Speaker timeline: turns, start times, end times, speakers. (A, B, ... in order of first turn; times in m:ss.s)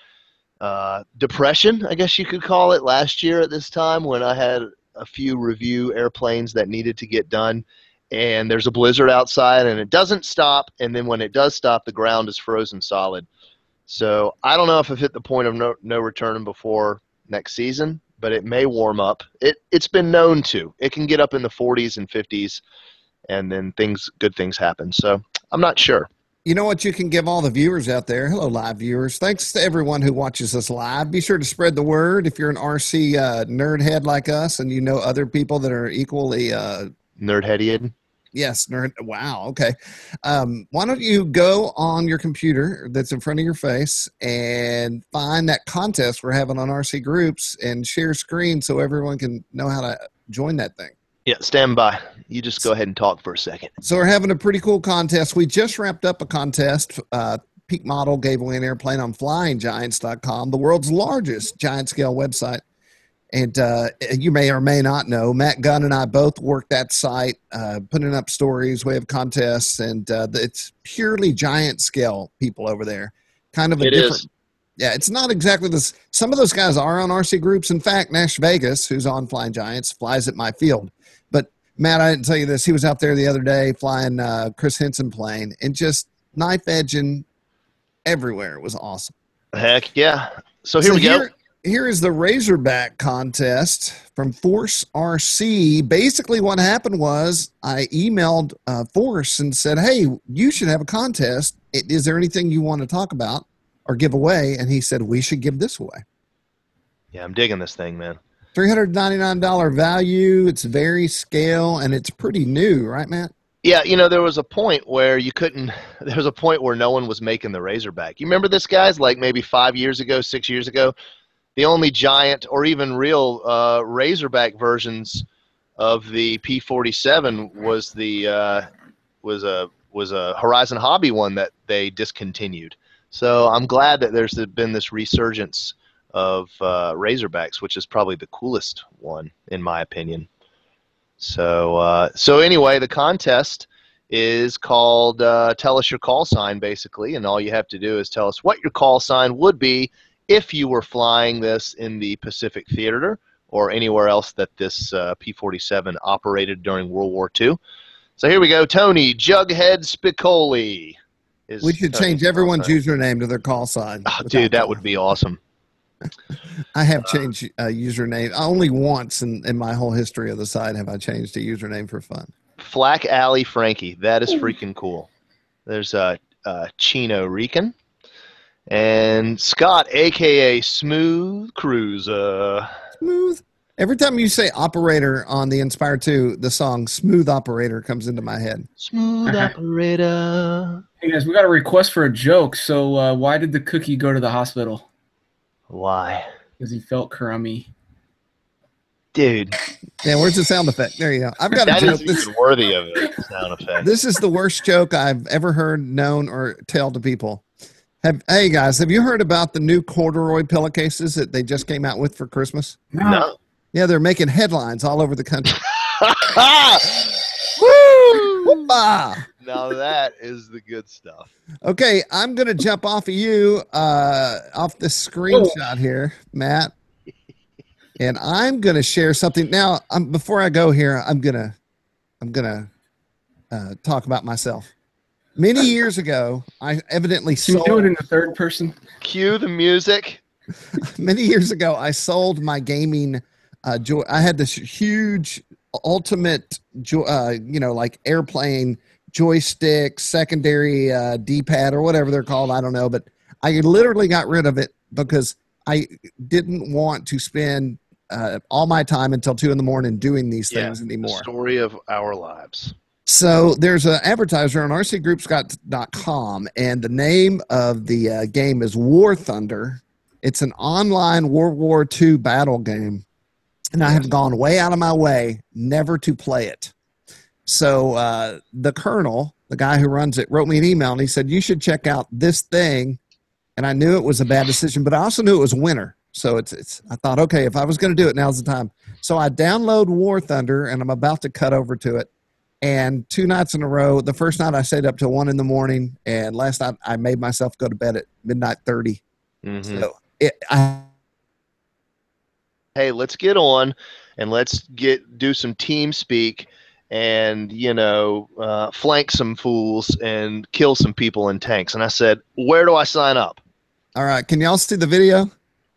0:00.6-0:13.3 A
0:13.9-0:22.6 A
0:23.3-0:26.1 A
0:26.4-0:36.9 B
0:37.2-0:37.9 A
0:38.3-0:50.9 B
0:51.2-0:53.7 A
0:53.8-1:02.6 B
1:03.3-1:14.3 B
1:13.8-1:14.2 A
1:14.8-1:27.2 B
1:28.0-1:29.1 B
1:29.5-1:31.2 A
1:30.8-1:46.0 B
1:47.1-1:48.2 A
1:48.5-1:53.3 B
1:53.6-2:00.9 A
2:01.6-2:05.2 A
2:05.8-2:08.7 A
2:09.2-2:20.3 A
2:21.2-2:37.6 A
2:38.2-2:41.0 A
2:41.5-2:42.7 A
2:41.6-2:44.8 B
2:44.1-2:45.4 A
2:46.7-2:52.3 B
2:52.6-2:55.1 A
2:55.7-2:57.7 A
2:58.7-3:02.7 A
3:03.0-3:08.7 B
3:08.8-3:10.8 A
3:09.2-3:09.5 C
3:11.0-3:14.8 C
3:15.7-3:16.3 A
3:16.6-3:17.7 C
3:19.1-3:19.5 A
3:20.0-3:22.2 B
3:21.6-3:23.8 A
3:23.8-3:27.4 B
3:28.0-3:32.8 B
3:32.9-3:33.3 C
3:33.0-3:33.3 A
3:33.7-3:35.5 B
3:35.5-3:38.7 A
3:38.6-3:39.2 B
3:39.4-3:41.3 A
3:41.6-3:46.7 B
3:45.3-3:45.6 C
3:48.0-3:51.6 B
3:52.2-3:52.7 B
3:53.5-3:54.7 B
3:55.4-3:57.9 B
3:57.4-3:58.8 C
3:59.0-4:00.2 A
4:00.8-4:21.3 B
4:20.5-4:22.7 A
4:23.0-4:33.0 B
4:33.7-4:36.7 B
4:37.4-4:43.0 B
4:43.6-4:52.1 B
4:52.6-4:59.0 B
4:59.4-4:59.8 A
4:59.7-5:00.9 B
5:02.8-5:13.4 A
5:14.0-5:15.3 B